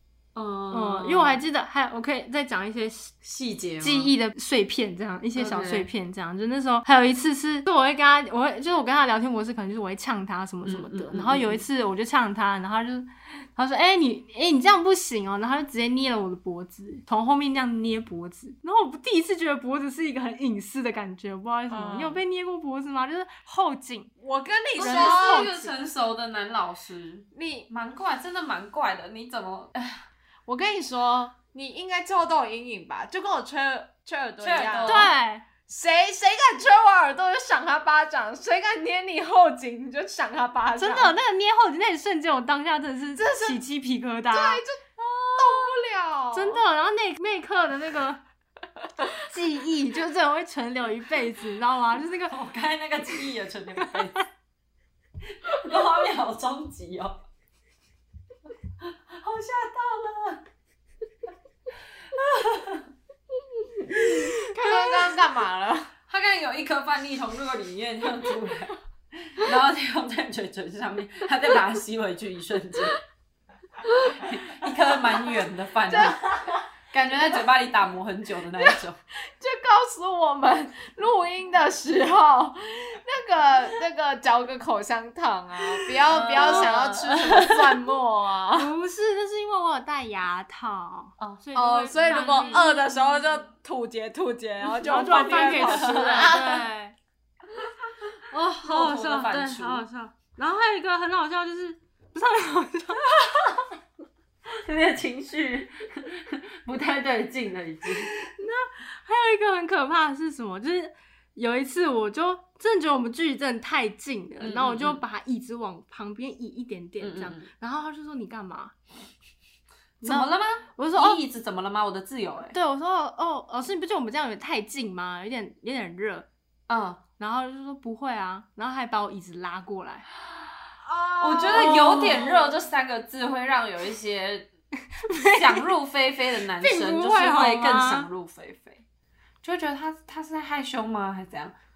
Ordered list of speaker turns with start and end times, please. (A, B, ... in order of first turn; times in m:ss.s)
0:00.4-0:01.4 A
0:00.7-0:03.1 B
0:03.2-0:04.1 A
0:03.8-0:24.1 B
0:05.4-0:05.9 A
0:10.6-0:11.6 A
0:21.7-0:22.2 C
0:24.2-0:25.4 C
0:24.8-0:25.8 B
0:24.8-0:30.0 A
0:27.3-0:27.7 C
0:30.5-0:35.1 C
0:34.4-0:35.1 A
0:34.9-0:35.5 B
0:35.7-0:41.2 C
0:40.8-0:44.6 B
0:43.2-0:43.6 C
0:44.3-0:46.6 C
0:45.4-0:45.7 A
0:46.3-0:48.2 B
0:49.2-0:52.4 B
0:52.3-0:54.3 A
0:55.3-0:57.2 A
0:58.8-1:00.4 A
1:02.2-1:02.9 A
1:03.9-1:05.9 C
1:06.1-1:13.0 A
1:14.1-1:19.0 A
1:15.1-1:16.6 C
1:18.6-1:28.7 C
1:26.0-1:27.8 A
1:28.5-1:33.2 B
1:31.5-1:36.6 C
1:32.1-1:32.7 A
1:34.6-1:37.0 B
1:35.1-1:36.5 A
1:38.3-1:43.1 B
1:38.6-1:39.9 A
1:43.2-1:43.6 A
1:44.5-1:48.1 A
1:48.2-1:58.8 B
1:54.4-1:55.0 A
1:57.0-1:57.5 A
2:00.0-2:02.6 A
2:00.0-2:01.2 B
2:02.5-2:06.3 B
2:06.7-2:07.0 A
2:07.2-2:10.1 B
2:10.8-2:12.6 C
2:11.2-2:14.5 A
2:11.6-2:12.2 B
2:15.0-2:15.7 B
2:15.2-2:18.8 A
2:16.6-2:18.1 B
2:19.4-2:21.5 A